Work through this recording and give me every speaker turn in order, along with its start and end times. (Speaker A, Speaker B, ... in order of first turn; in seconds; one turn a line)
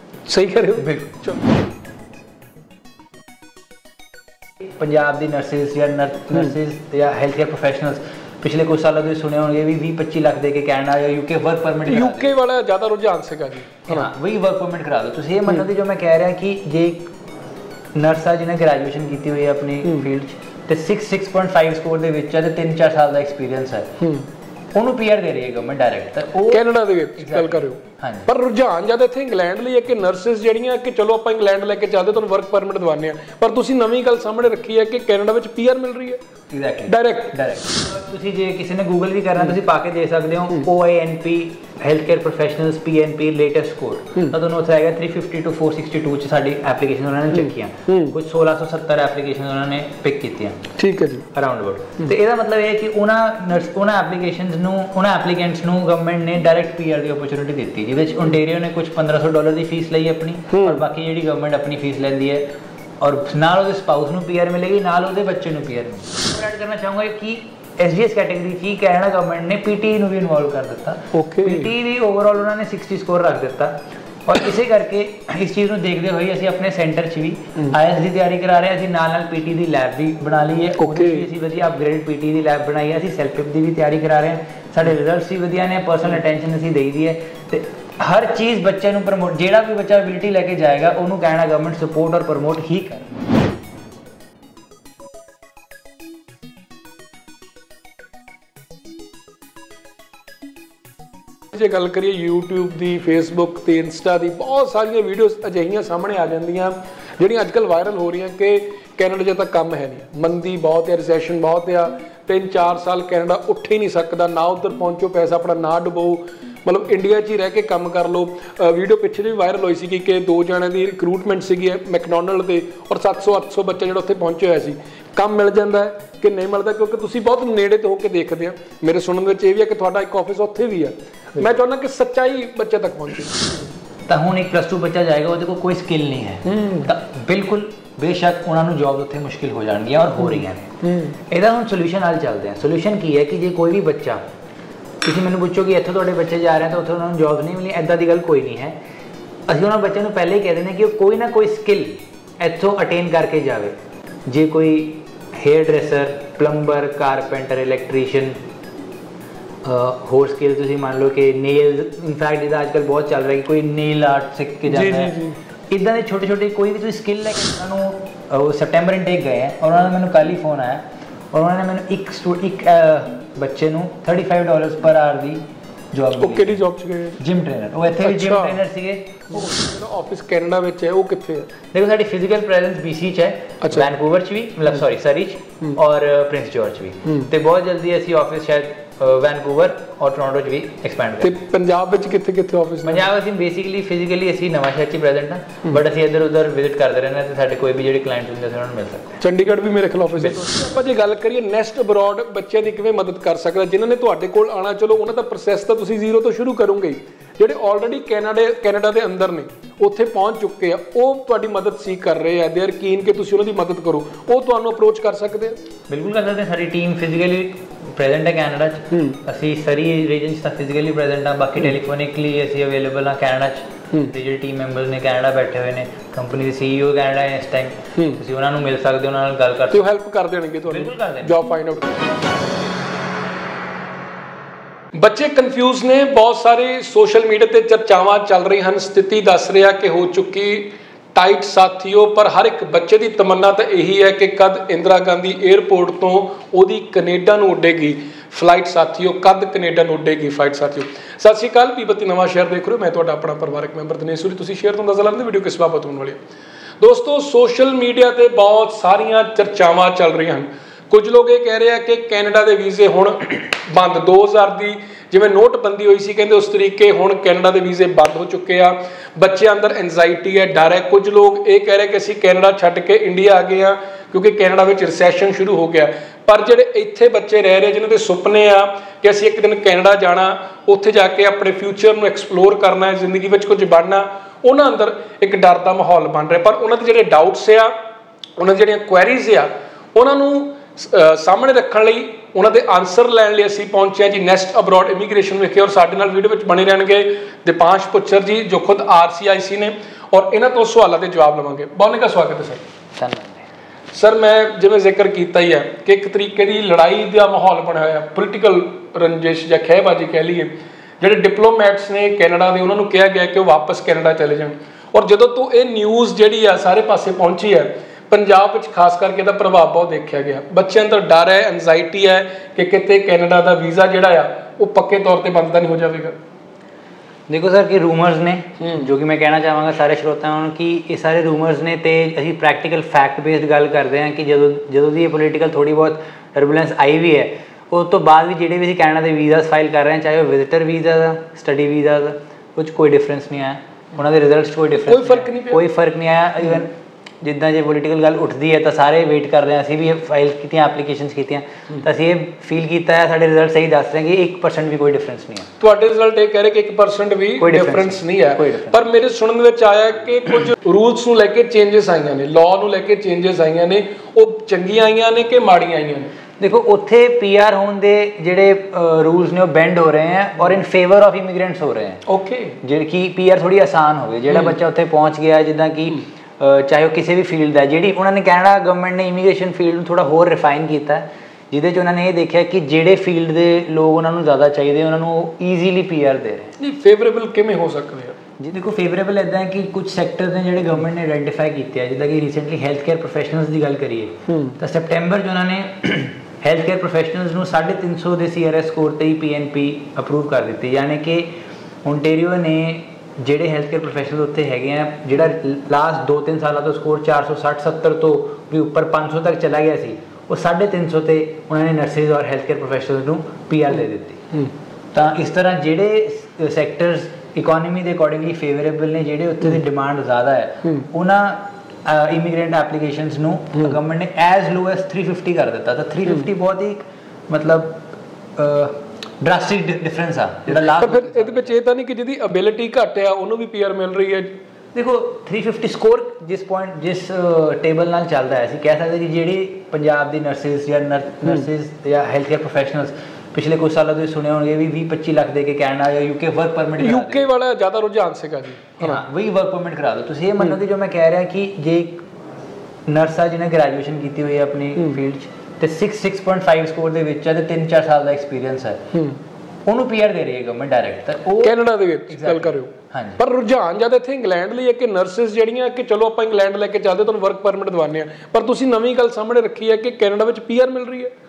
Speaker A: 0.2-1.4
Speaker B: 0.8-1.3
Speaker B: 4.8-12.3
Speaker A: 11.8-14.1
Speaker B: 13.9-17.1
Speaker B: 17.9-24.0
Speaker A: 24.0-24.3
Speaker B: 24.7-26.6
Speaker A: 26.5-36.2
Speaker B: 27.2-28.3
Speaker B: 36.5-50.7
Speaker A: 36.9-37.4
Speaker A: 47.9-48.1
Speaker A: 50.8-51.3
Speaker B: 51.3-62.5
Speaker A: 60.5-60.8
Speaker B: 63.0-93.1
Speaker A: 71.1-71.7
Speaker A: 80.8-81.2
Speaker A: 101.5-133.7
Speaker B: 134.1-140.8
Speaker A: 136.4-136.9
Speaker A: 140.8-141.2
Speaker B: 141.3-144.2
Speaker B: 145.0-148.8
Speaker B: 149.5-153.7
Speaker B: 154.2-158.4
Speaker B: 159.6-165.1
Speaker A: 164.7-165.4
Speaker B: 165.7-176.6
Speaker A: 176.2-177.2
Speaker B: 177.2-179.4
Speaker A: 178.0-178.6
Speaker A: 179.3-181.5
Speaker B: 181.7-191.3
Speaker A: 191.2-193.1
Speaker B: 192.8-199.2
Speaker A: 199.2-215.6
Speaker B: 215.9-229.9
Speaker A: 218.9-219.2
Speaker A: 229.7-232.1
Speaker B: 230.7-231.3
Speaker A: 234.9-256.2
Speaker A: 256.8-287.7
Speaker A: 288.4-302.6
Speaker B: 303.0-303.4
Speaker A: 303.9-326.2
Speaker B: 327.3-355.5
Speaker A: 344.9-345.6
Speaker A: 355.6-366.1
Speaker B: 357.4-358.8
Speaker B: 366.4-372.0
Speaker A: 372.1-372.6
Speaker B: 372.6-386.5
Speaker A: 386.6-388.2
Speaker B: 388.4-401.3
Speaker A: 394.3-394.5
Speaker B: 401.8-414.3
Speaker B: 414.9-431.5
Speaker A: 430.6-434.4
Speaker B: 434.7-447.2
Speaker A: 446.8-449.0
Speaker B: 448.8-452.0
Speaker B: 452.9-458.9
Speaker B: 459.7-461.6
Speaker A: 461.4-471.1
Speaker B: 462.1-463.2